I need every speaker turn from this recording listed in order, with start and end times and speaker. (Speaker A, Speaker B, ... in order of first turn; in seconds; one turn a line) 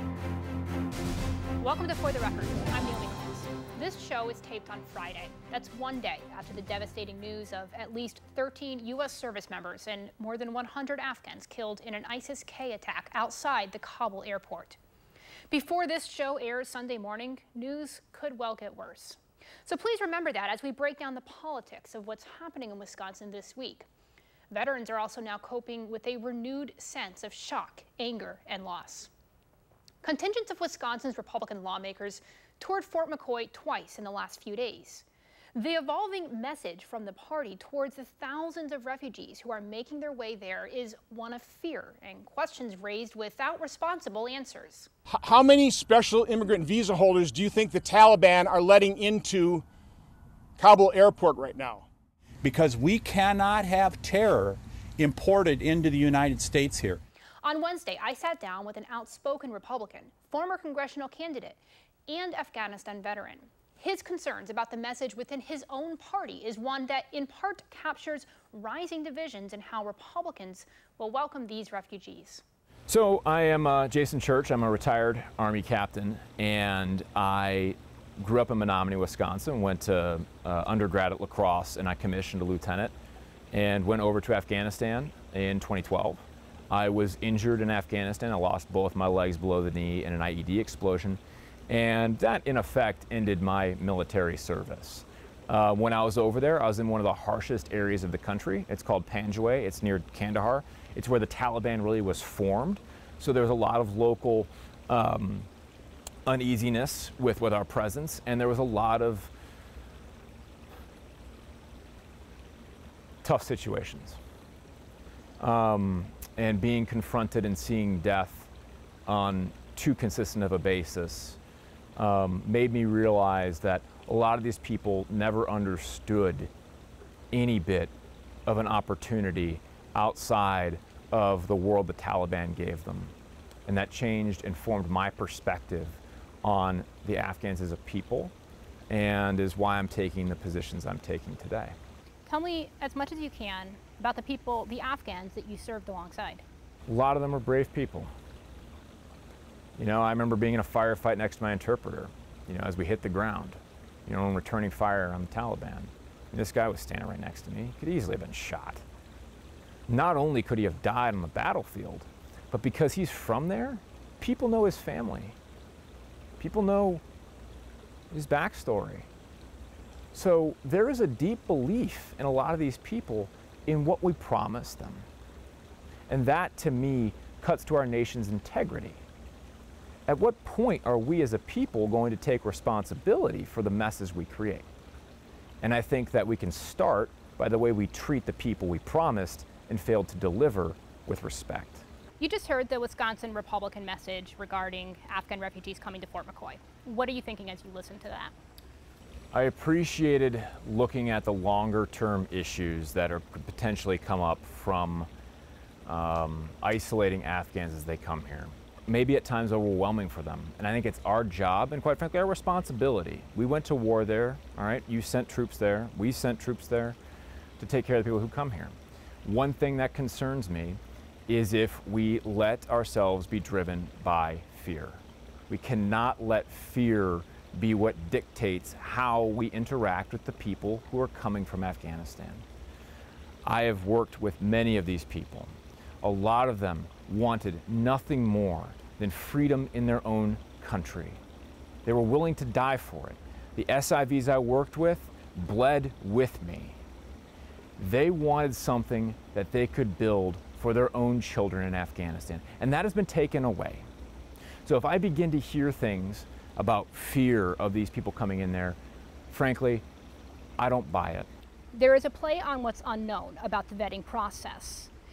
Speaker A: 1.6-14.8
Speaker A: 15.5-23.9
Speaker A: 24.5-29.1
Speaker A: 30.0-44.9
Speaker B: 45.1-49.6
Speaker B: 50.6-51.9
Speaker C: 52.4-57.0
Speaker A: 57.4-72.4
Speaker D: 72.9-82.9
Speaker D: 83.5-105.5
Speaker D: 106.2-109.3
Speaker D: 113.2-114.2
Speaker D: 115.4-118.5
Speaker D: 119.1-121.4
Speaker D: 122.0-126.5
Speaker D: 127.3-127.9
Speaker D: 128.5-133.1
Speaker D: 133.7-138.3
Speaker D: 138.9-141.8
Speaker A: 142.2-146.4
Speaker D: 146.9-148.1
Speaker D: 149.8-158.8
Speaker D: 159.9-165.3
Speaker D: 166.4-167.0
Speaker D: 168.1-169.1
Speaker D: 170.1-175.1
Speaker D: 176.1-179.0
Speaker D: 180.1-184.7
Speaker D: 185.6-191.8
Speaker A: 192.2-198.3
Speaker D: 199.3-205.1
Speaker D: 205.8-217.0
Speaker D: 217.6-232.4
Speaker D: 233.4-241.2
Speaker D: 241.8-246.8
Speaker D: 247.8-253.9
Speaker D: 254.6-258.8
Speaker D: 259.3-259.8
Speaker D: 260.6-261.3
Speaker A: 261.7-264.9